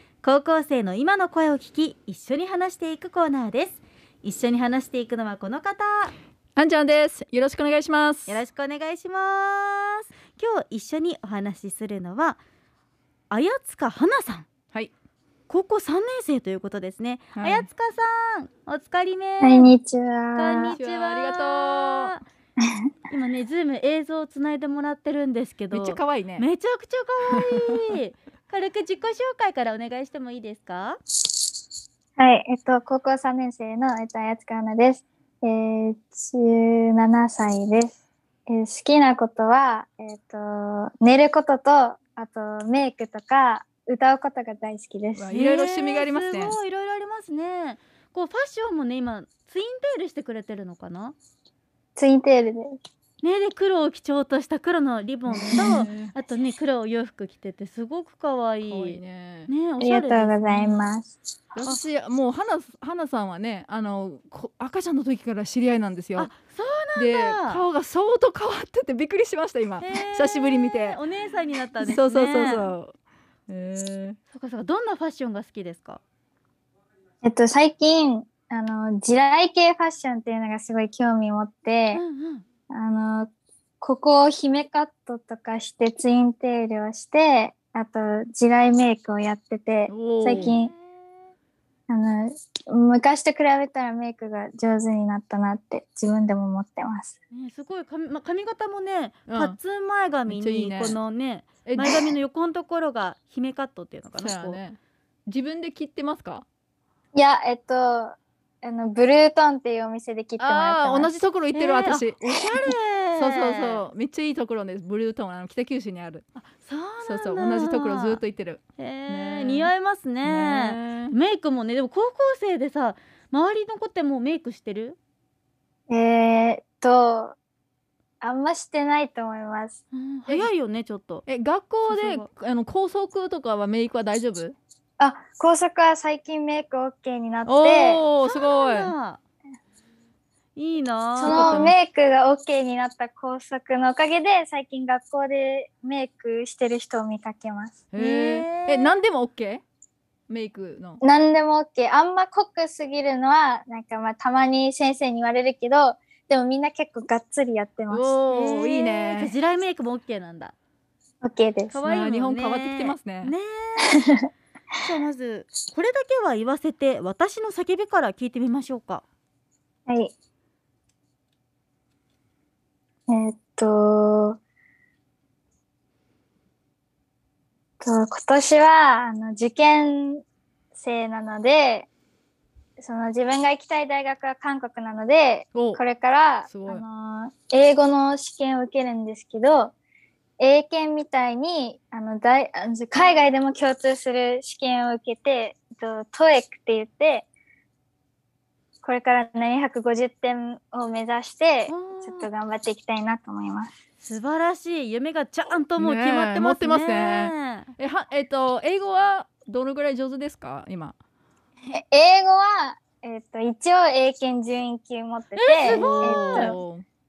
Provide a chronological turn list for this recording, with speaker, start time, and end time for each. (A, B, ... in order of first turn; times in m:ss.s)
0:00.2-0:06.1 A
0:06.6-0:08.4 B
0:08.3-0:12.4 A
0:13.3-0:14.5 A
0:15.5-0:19.7 A
0:17.4-0:17.7 B
0:19.4-0:20.8 C
0:20.4-0:22.2 A
0:20.7-0:22.2 B
0:23.1-0:31.0 A
0:25.7-0:26.4 B
0:32.2-0:45.3 C
0:45.1-0:46.6 B
0:45.3-0:51.2 A
0:52.0-0:52.8 C
0:53.2-1:00.8 A
0:55.5-0:56.1 B
0:58.6-0:59.5 B
0:59.8-1:01.2 C
1:01.6-1:06.3 B
1:06.2-1:07.6 A
1:07.0-1:11.0 B
1:09.8-1:12.7 A
1:11.8-1:12.9 B
1:13.5-1:14.2 B
1:14.3-1:16.0 A
1:17.2-1:22.0 C
1:21.9-1:22.4 A
1:22.7-1:23.3 C
1:23.8-1:30.7 C
1:29.9-1:30.6 B
1:30.3-1:30.7 A
1:31.9-1:37.1 C
1:37.3-1:44.6 A
1:39.3-1:39.6 B
1:40.3-1:41.0 B
1:41.6-1:42.1 B
1:44.2-1:46.4 B
1:47.1-1:51.1 C
1:50.4-1:56.2 B
1:51.5-1:53.8 A
1:56.4-1:58.2 A
1:57.0-1:59.7 B
1:58.8-2:05.0 A
2:00.2-2:01.1 B
2:05.9-2:07.4 C
2:08.2-2:09.8 C
2:09.9-2:11.2 A
2:11.3-2:14.6 B
2:11.8-2:12.3 A
2:15.0-2:18.0 C
2:17.4-2:18.9 B
2:18.2-2:19.2 A
2:20.6-2:21.6 A
2:21.2-2:27.8 C
2:21.2-2:21.7 B
2:27.9-2:29.6 B
2:28.0-2:28.9 A
2:30.3-2:31.0 B
2:31.0-2:38.2 C
2:37.9-2:39.3 B
2:38.3-2:40.5 A
2:41.2-2:41.8 C
2:41.7-2:44.0 A
2:41.8-2:43.3 B
2:43.8-2:44.2 C
2:44.8-2:49.0 A
2:49.9-2:50.1 C
2:53.1-2:54.4 C
2:57.8-3:00.2 C
3:00.7-3:01.9 C
3:02.8-3:09.7 C
3:05.5-3:05.8 B
3:06.5-3:06.8 B
3:10.4-3:17.3 C
3:18.8-3:23.7 C
3:21.7-3:22.3 A
3:24.0-3:27.7 A
3:25.8-3:30.9 B
3:31.7-3:36.5 C
3:35.4-3:36.6 A
3:35.6-3:36.8 B